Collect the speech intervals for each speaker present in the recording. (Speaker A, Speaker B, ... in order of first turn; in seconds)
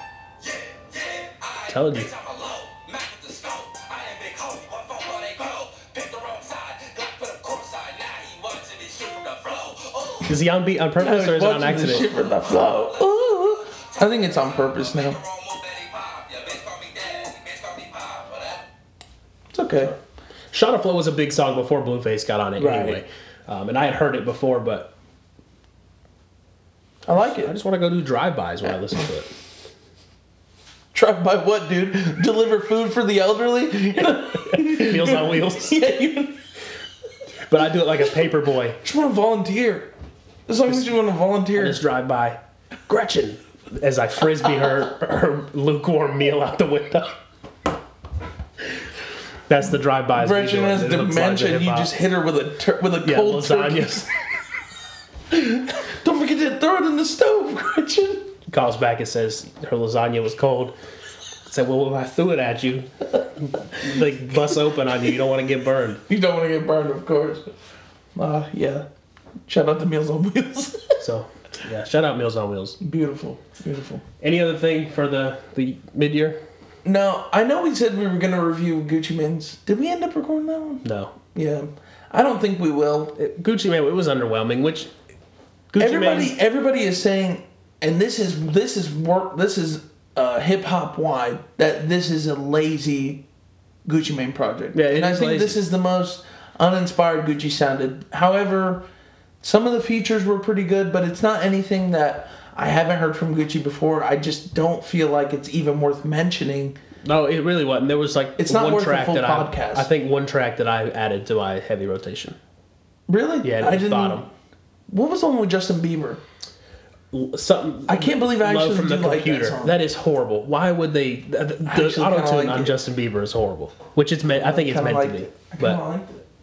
Speaker A: 0.4-10.3, 12.5-18.6
Speaker B: 1.7-2.1, 10.3-12.1, 20.5-24.9, 27.1-29.3, 34.5-36.0, 37.5-38.8, 41.5-47.2, 49.5-51.9, 53.0-54.1, 58.5-60.8, 61.5-66.0, 71.0-72.8, 74.2-76.4, 80.8-81.1, 83.2-84.9, 85.7-86.3, 94.7-95.6, 107.0-112.4, 113.4-114.3, 117.1-125.8
Speaker C: 11.0-15.2, 19.5-19.9, 22.6-23.0, 27.1-27.6, 30.9-36.4, 38.8-39.9, 40.5-41.8, 50.1-54.1, 55.3-58.3, 66.1-67.5, 68.2-68.9, 69.5-71.0, 72.8-74.0, 76.8-80.8, 81.3-83.2, 85.8-93.2, 93.8-98.9, 99.4-106.8, 108.4-109.9, 113.1-114.3, 114.9-116.2, 117.9-119.8, 121.6-122.7, 124.3-126.2